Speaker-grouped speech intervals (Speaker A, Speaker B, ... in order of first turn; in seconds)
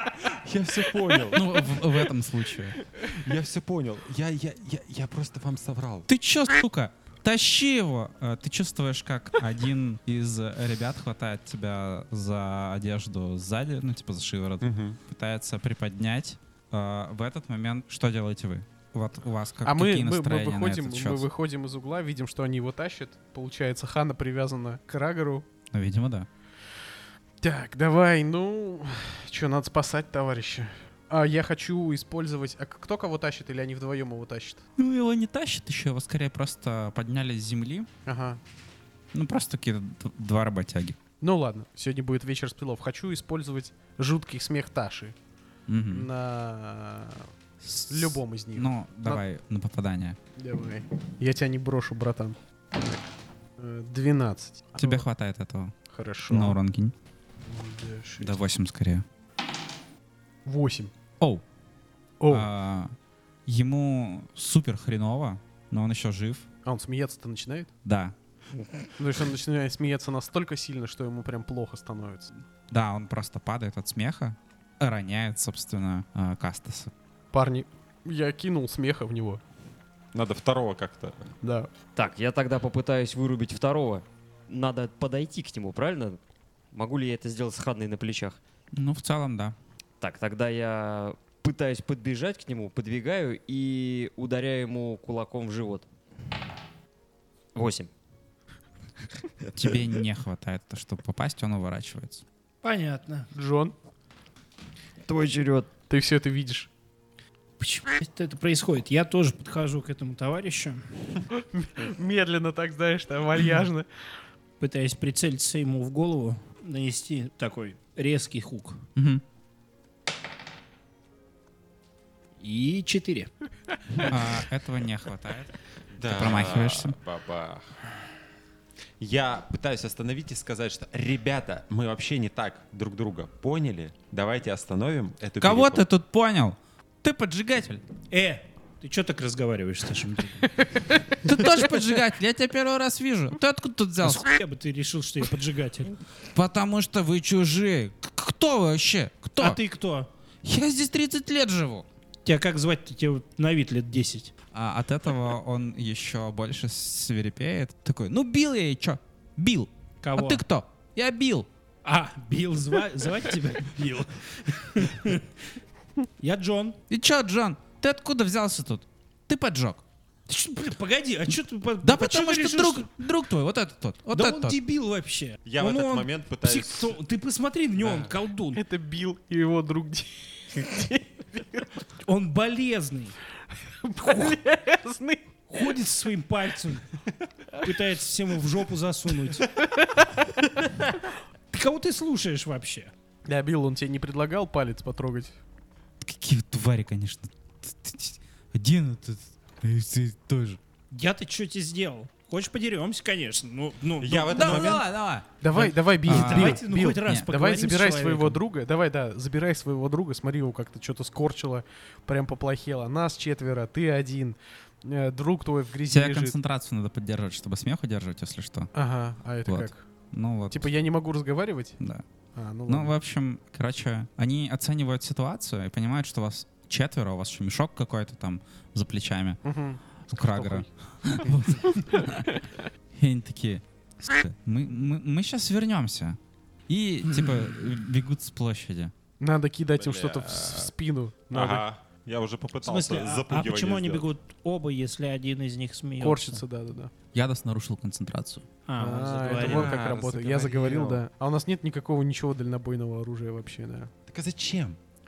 Speaker A: 0.2-1.5, 3.0-6.1, 14.6-15.0, 80.1-81.3, 125.9-127.8, 129.0-135.8, 175.4-176.9, 177.8-178.1, 204.0-204.9, 239.8-240.7, 241.3-244.1, 249.3-251.0, 254.1-254.8
Speaker B: 1.3-2.8, 6.1-21.3, 25.7-26.3, 34.8-37.9, 39.1-41.0, 45.7-46.1, 47.6-50.2, 54.8-55.7, 56.3-56.9, 58.2-59.0, 62.3-62.9, 63.5-66.5, 67.8-68.1, 72.7-76.9, 88.7-89.6, 99.5-102.2, 119.0-119.2, 124.0-127.0, 135.4-137.8, 141.2-144.3, 146.3-149.6, 150.4-151.9, 154.5-161.5, 166.9-169.8, 171.8-174.6, 196.0-200.6, 204.3-205.3, 206.0-207.3, 215.9-218.7, 219.4-220.7, 222.7-229.4, 230.1-232.4, 232.9-236.2, 236.7-238.9, 247.1-248.5
Speaker C: 19.6-25.5, 27.4-34.6, 38.1-38.4, 41.2-45.1, 45.9-47.3, 47.9-49.2, 50.4-53.0, 53.6-55.0, 55.9-56.6, 57.5-58.4, 60.5-60.9, 62.2-62.5, 66.7-67.7, 69.0-72.3, 77.3-79.4, 81.4-81.7, 103.3-103.8, 105.8-106.7, 111.4-113.9, 178.6-181.7, 183.8-185.3, 189.4-190.5, 193.3-195.4, 205.4-216.3, 218.8-219.8, 220.5-221.8, 222.4-222.9, 229.4-230.7, 231.2-232.0, 239.2-241.7, 246.0-246.9, 248.8-253.9
Speaker D: 82.0-86.2, 86.7-88.4, 90.0-95.9, 97.5-97.9, 105.0-105.7
Speaker E: 102.6-103.3, 107.6-110.9, 114.6-118.8, 122.4-123.3, 138.1-140.5, 144.0-146.0, 149.4-150.1, 152.2-154.3, 160.0-160.4, 161.8-165.3, 166.2-166.8, 170.3-172.9, 174.1-178.6, 182.0-183.2, 184.0-184.3, 185.5-186.9, 187.6-189.5, 191.5-192.9, 200.9-204.8, 205.5-208.4, 237.1-237.6, 242.6-246.4, 248.7-249.8